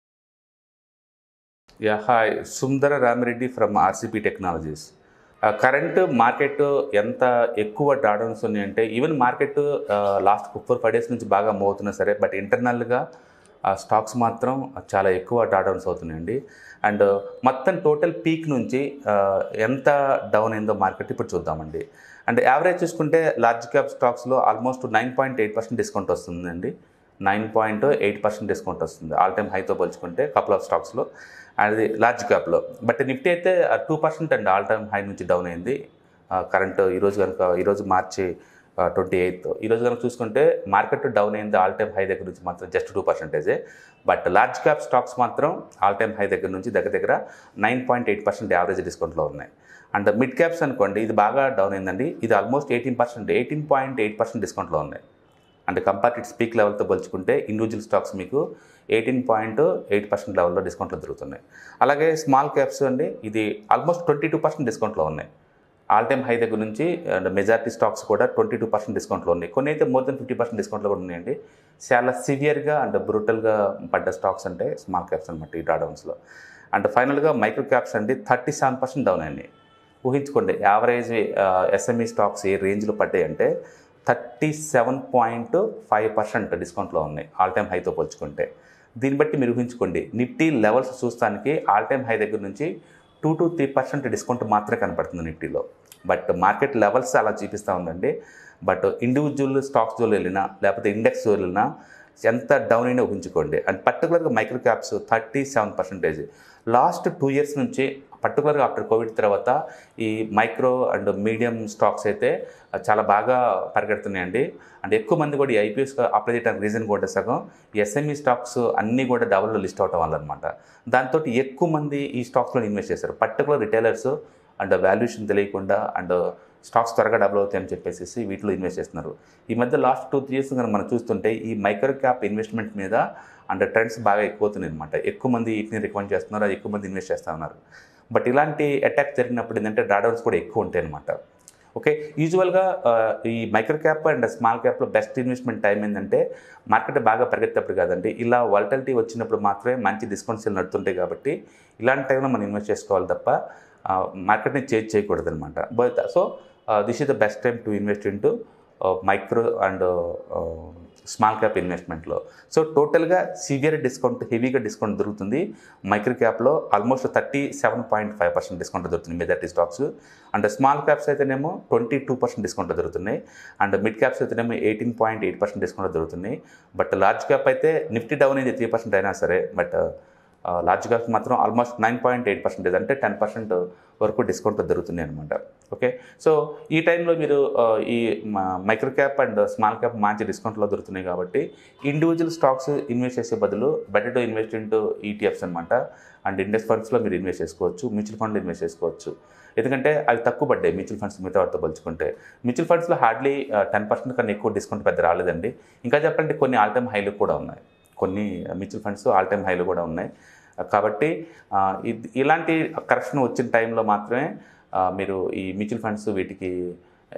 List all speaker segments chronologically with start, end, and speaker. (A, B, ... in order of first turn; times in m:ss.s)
0:01.8-0:04.9 A
0:05.5-0:13.0 A
0:13.7-0:26.7 A
0:27.2-0:31.1 A
0:31.6-0:35.8 A
0:36.3-0:38.3 A
0:38.8-0:43.6 A
0:44.1-0:55.0 A
0:55.7-0:58.4 A
0:58.9-1:05.3 A
1:05.9-1:11.3 A
1:11.9-1:16.1 A
1:16.7-1:19.5 A
1:20.0-1:23.5 A
1:24.1-1:28.5 A
1:29.0-1:32.7 A
1:33.2-1:38.1 A
1:38.7-1:41.6 A
1:42.3-2:17.6 A
2:18.1-2:21.1 A
2:21.8-2:33.4 A
2:33.9-2:59.8 A
3:00.5-3:30.1 A
3:30.7-3:34.3 A
3:34.8-3:36.5 A